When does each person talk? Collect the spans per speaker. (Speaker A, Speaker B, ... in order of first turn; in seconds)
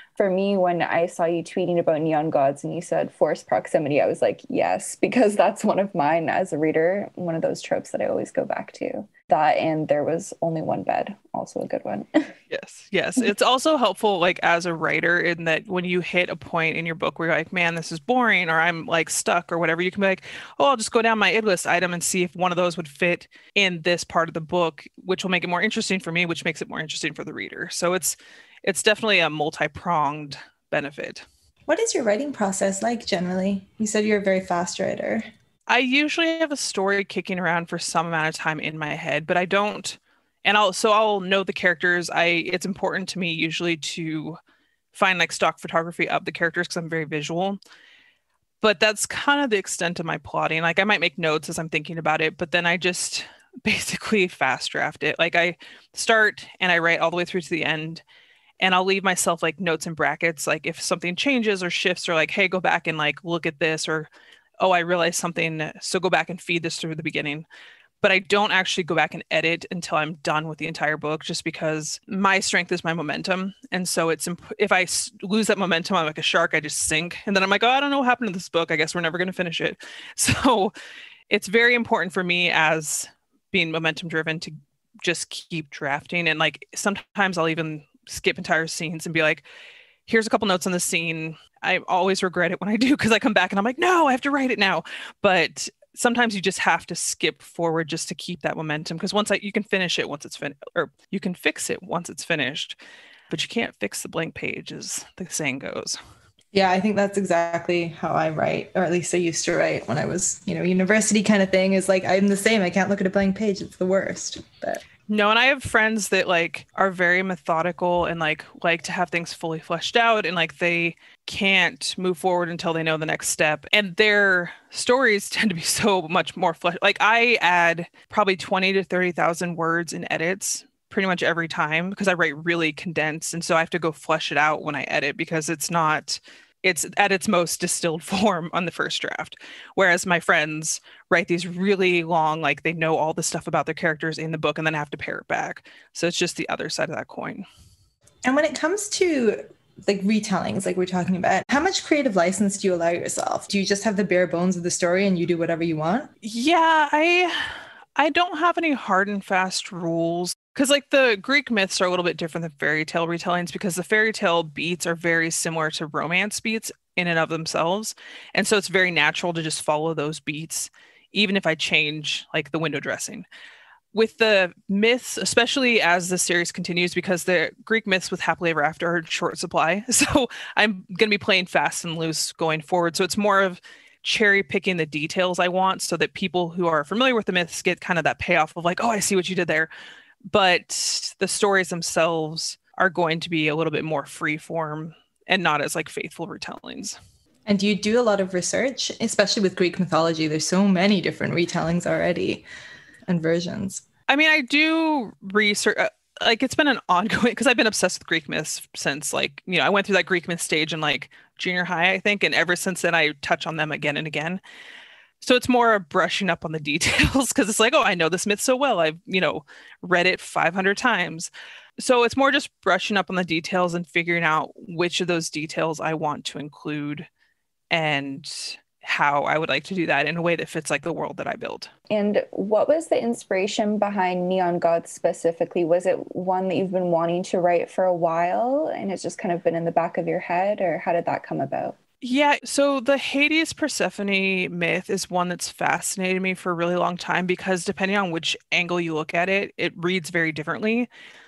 Speaker A: 0.2-12.3, 231.9-241.8
Speaker B: 12.5-31.2, 35.7-44.4, 44.9-47.6, 48.6-58.0, 58.6-67.5, 68.0-80.7, 81.3-89.5, 90.1-102.8, 103.3-106.0, 115.1-147.5, 156.2-173.2, 173.9-189.7, 190.3-197.0, 204.1-214.4, 215.2-227.1, 227.7-231.7, 242.0-250.9
Speaker C: 31.7-35.3, 106.5-114.8, 148.2-156.1, 197.5-202.5, 203.1-203.8